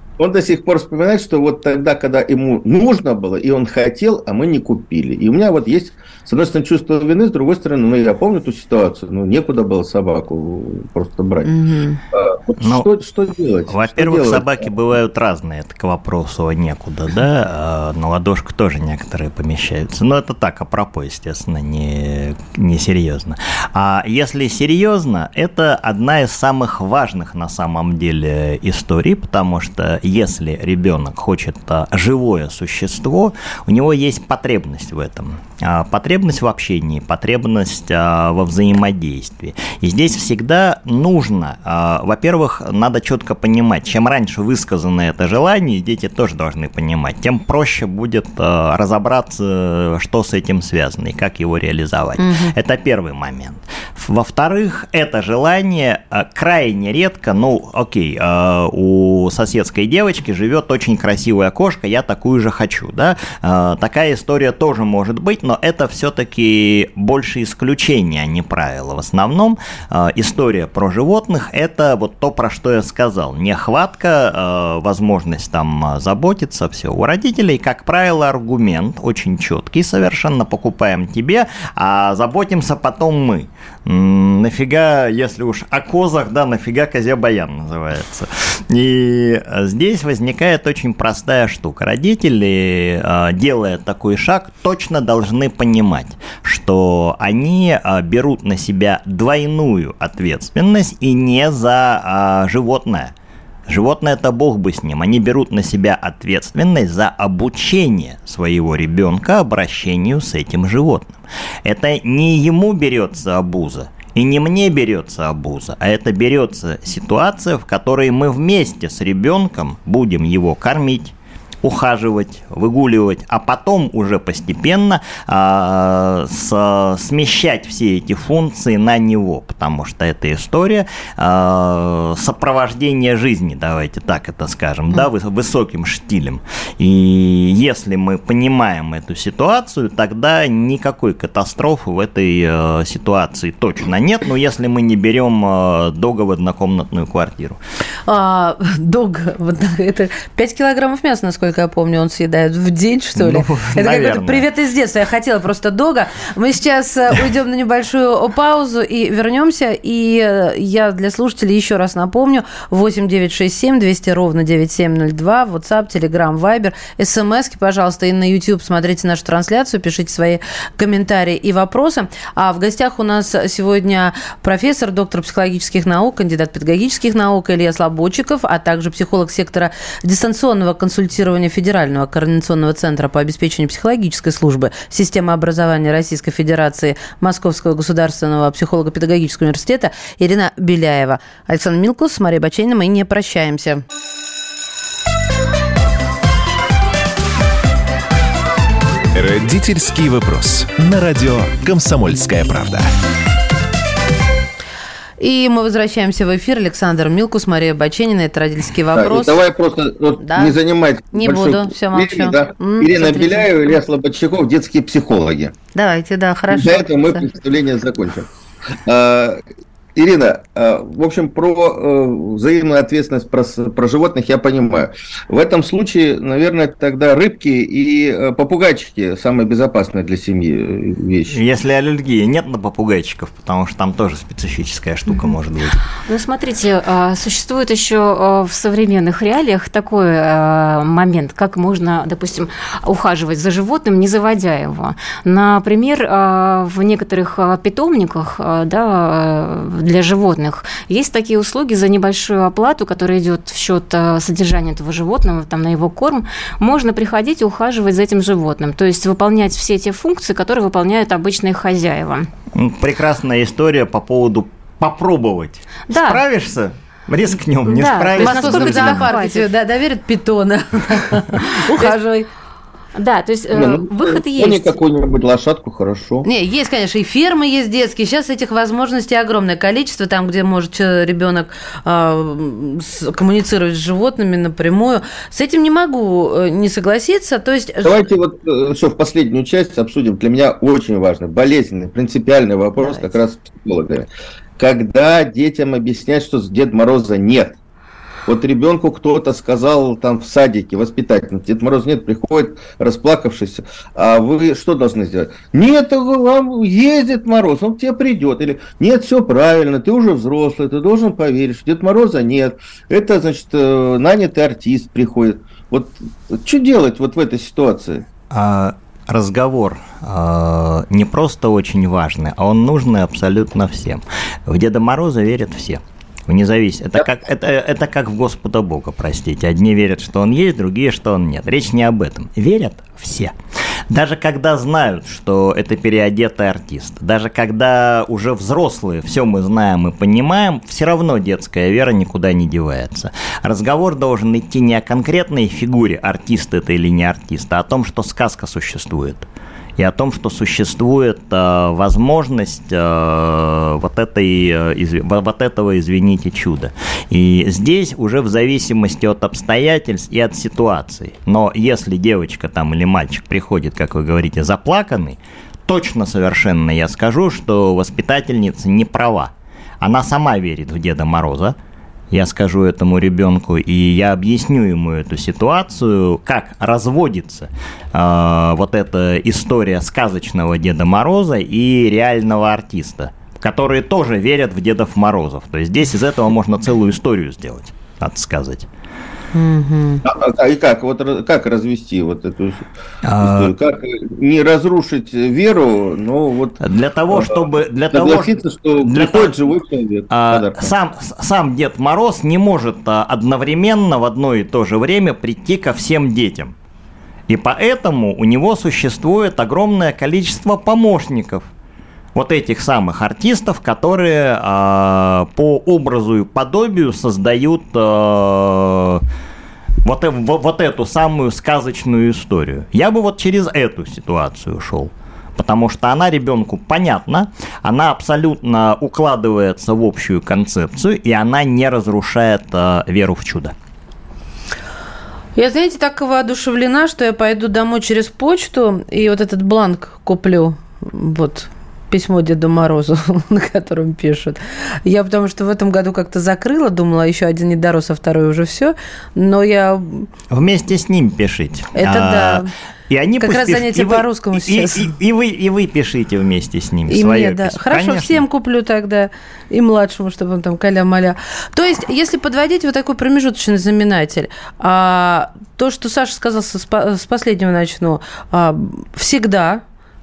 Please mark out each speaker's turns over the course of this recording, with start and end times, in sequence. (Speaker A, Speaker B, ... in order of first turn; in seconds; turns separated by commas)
Speaker A: 0.2-11.5, Speaker B: 11.4-12.0, Speaker A: 12.1-14.6, Speaker C: 12.6-12.9, Speaker C: 13.7-103.1, Speaker B: 52.2-52.5, Speaker C: 103.7-147.6, Speaker B: 148.1-193.8, Speaker C: 153.2-154.5, Speaker D: 199.2-202.9, Speaker B: 205.2-209.4, Speaker A: 208.9-215.5, Speaker B: 210.2-210.6, Speaker B: 211.1-213.5, Speaker B: 215.8-217.2, Speaker A: 216.5-218.3, Speaker A: 218.8-219.4, Speaker A: 220.0-231.4, Speaker C: 231.3-235.8, Speaker E: 236.1-262.3, Speaker C: 262.6-269.1, Speaker E: 265.9-266.2, Speaker E: 267.6-269.5, Speaker B: 268.2-272.3, Speaker E: 273.0-274.8, Speaker A: 273.5-276.3, Speaker B: 276.2-288.0, Speaker A: 287.8-297.6, Speaker A: 298.3-318.1, Speaker C: 318.3-333.3, Speaker C: 333.9-349.3, Speaker C: 349.8-371.6, Speaker C: 372.1-388.7, Speaker B: 389.3-390.0, Speaker A: 390.0-392.7, Speaker C: 393.0-393.5, Speaker A: 393.2-400.6, Speaker C: 396.6-399.4, Speaker C: 400.1-406.5, Speaker C: 407.3-411.5, Speaker C: 412.1-419.0, Speaker C: 419.8-433.5, Speaker B: 435.4-450.1, Speaker C: 450.3-458.2, Speaker B: 451.8-452.5, Speaker B: 453.2-454.9, Speaker B: 456.9-469.6